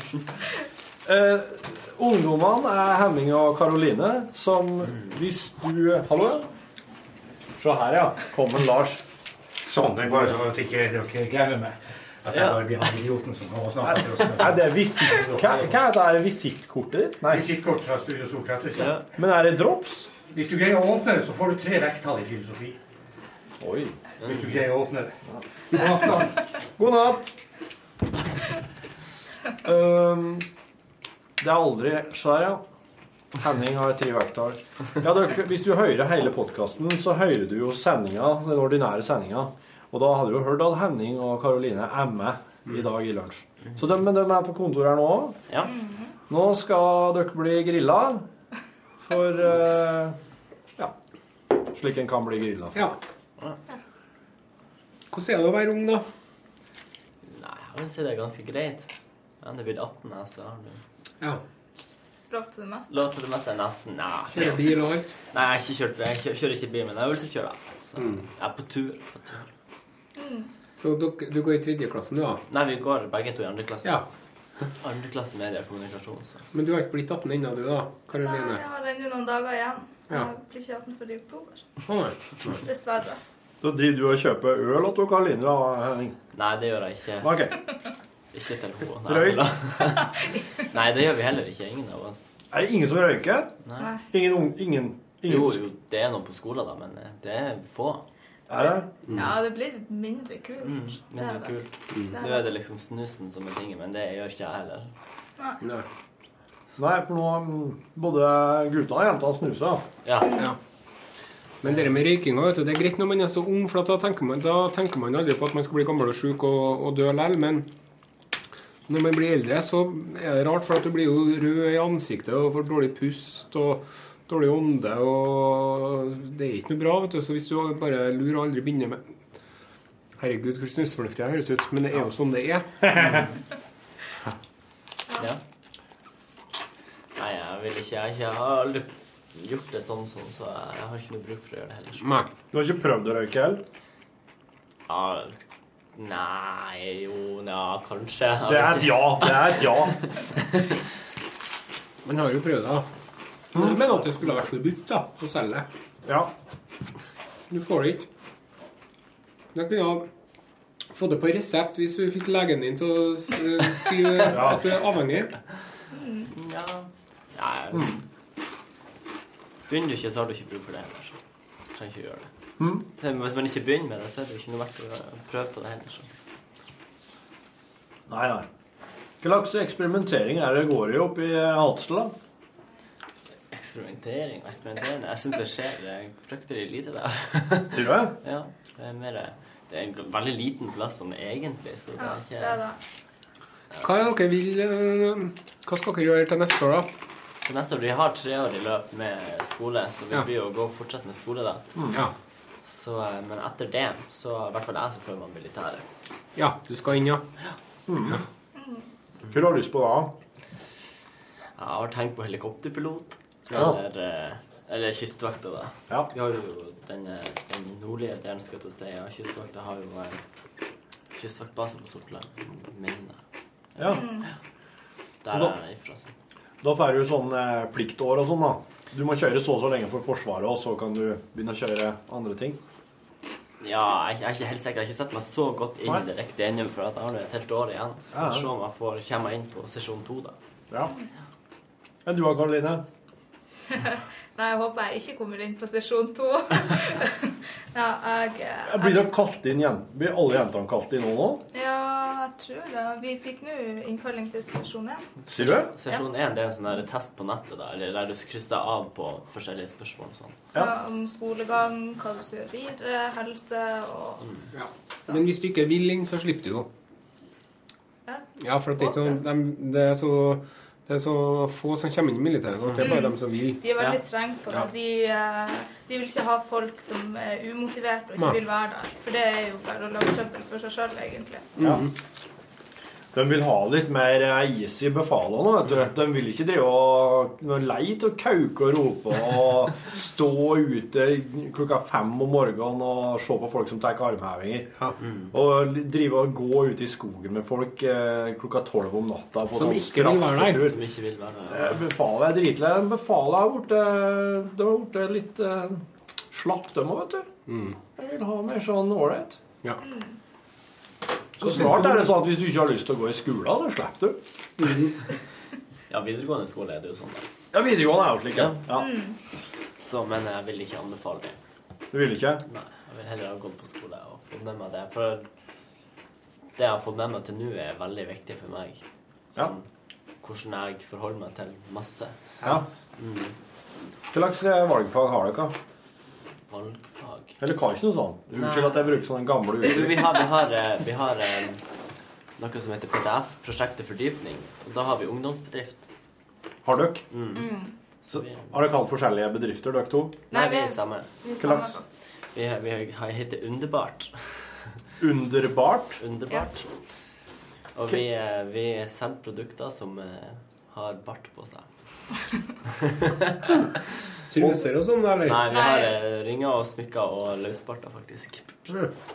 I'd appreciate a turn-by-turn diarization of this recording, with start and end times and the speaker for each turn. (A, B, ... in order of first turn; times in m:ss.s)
0:01.1-0:06.5 A
0:07.6-0:09.0 A
0:09.7-0:15.7 B
0:12.3-0:12.6 C
0:13.9-0:17.5 A
0:17.3-0:19.0 B
0:18.8-0:19.0 C
0:19.2-0:20.1 A
0:20.3-0:22.8 B
0:23.6-0:24.0 A
0:24.2-0:24.6 C
0:24.2-0:25.2 B
0:25.3-0:27.4 A
0:29.6-0:30.5 A
0:31.4-0:32.6 A
0:33.4-0:45.4 A
0:45.6-0:46.1 D
0:46.3-0:48.3 A
0:49.0-0:50.2 A
0:51.6-0:52.9 A
0:55.1-0:56.1 E
0:57.2-0:58.9 C
0:59.4-1:00.8 C
1:02.3-1:03.0 D
1:02.9-1:04.8 C
1:04.3-1:05.1 E
1:05.3-1:09.5 C
1:08.0-1:08.2 E
1:10.2-1:10.5 D
1:10.8-1:12.4 E
1:12.5-1:14.0 C
1:14.8-1:16.5 C
1:16.5-1:18.6 E
1:18.2-1:21.7 D
1:21.9-1:22.6 E
1:22.6-1:23.2 D
1:23.6-1:26.2 A
1:26.3-1:27.3 C
1:27.2-1:27.6 A
1:28.3-1:32.3 C
1:29.1-1:29.5 A
1:32.5-1:33.5 A
1:33.7-1:33.9 C
1:33.8-1:34.1 D
1:34.1-1:35.6 A
1:35.3-1:38.0 C
1:38.5-1:38.9 A
1:39.1-1:42.5 D
1:40.6-1:44.9 C
1:46.8-1:49.8 A
1:50.0-1:50.4 C
1:50.2-1:50.5 D
1:51.6-1:57.7 E
1:58.9-2:09.1 E
2:10.2-2:13.1 E
2:17.2-2:22.1 C
2:22.0-2:22.3 E
2:22.5-2:23.6 A
2:24.9-2:25.4 C
2:26.0-2:30.8 C
2:28.4-2:30.0 A
2:32.0-2:32.9 E
2:33.5-2:35.7 E
2:36.1-2:36.3 A
2:37.5-2:38.1 E
2:39.5-2:40.1 E
2:40.9-2:45.4 E
2:44.3-2:44.6 A
2:45.9-2:46.3 D
2:46.3-2:48.0 C
2:47.7-2:48.0 A
2:49.7-2:51.2 C
2:51.7-2:52.3 C
2:52.6-2:52.9 A
2:52.8-2:56.1 C
2:58.1-2:58.5 A
2:59.2-3:02.1 A
3:03.5-3:12.6 C
3:07.7-3:08.2 A
3:12.0-3:12.8 D
3:13.8-3:16.9 E
3:17.4-3:21.8 C
3:21.8-3:22.0 A
3:22.6-3:25.8 C
3:26.4-3:27.2 E
3:27.9-3:28.2 A
3:28.6-3:28.9 D
3:29.3-3:30.1 A
3:31.6-3:40.2 C
3:33.5-3:33.8 A
3:41.2-3:43.2 C
3:43.8-3:44.0 A
3:43.8-3:44.3 C
3:43.9-3:44.3 D
3:45.2-3:46.1 C
3:46.6-3:52.6 A
3:53.6-4:00.4 C
3:58.1-3:58.5 A
4:02.1-4:02.8 A
4:03.7-4:09.1 D
4:08.6-4:11.4 A
4:11.5-4:15.1 D
4:15.3-4:15.7 A
4:15.4-4:20.5 C
4:20.5-4:24.3 D
4:24.6-4:26.7 E
4:28.1-4:29.2 D
4:28.4-4:33.6 E
4:32.8-4:41.5 D
4:41.6-4:41.9 E
4:41.6-4:41.9 A
4:43.1-4:54.7 A
4:55.3-5:00.8 A
4:59.5-5:00.7 E
5:00.5-5:01.8 C
5:01.5-5:07.3 A
5:07.5-5:07.8 E
5:08.0-5:09.4 A
5:09.8-5:10.2 D
5:11.4-5:14.2 A
5:11.5-5:12.0 E
5:14.6-5:14.9 E
5:15.9-5:17.3 C
5:17.5-5:18.9 A
5:18.3-5:18.6 C
5:18.7-5:19.2 D
5:19.8-5:21.4 C
5:21.9-5:22.4 A
5:22.5-5:25.3 C
5:26.6-5:29.6 C
5:30.2-5:33.4 C
5:34.1-5:35.6 A
5:36.5-5:37.4 C
5:37.4-5:40.0 A
5:38.3-5:39.0 C
5:39.6-5:41.6 C
5:42.4-5:45.9 C
5:46.6-5:47.1 A
5:47.1-5:47.5 C
5:47.3-5:47.8 D
5:48.0-5:48.5 C
5:48.1-5:50.4 A
5:50.3-5:51.1 C
5:50.3-5:51.9 D
5:51.4-5:51.8 A
5:52.3-5:54.5 C
5:55.0-5:56.0 A
5:56.0-5:56.7 C
5:57.8-6:01.7 C
6:02.7-6:03.6 C
6:04.3-6:05.6 E
6:04.4-6:04.6 A
6:05.2-6:08.7 C
6:05.5-6:06.0 D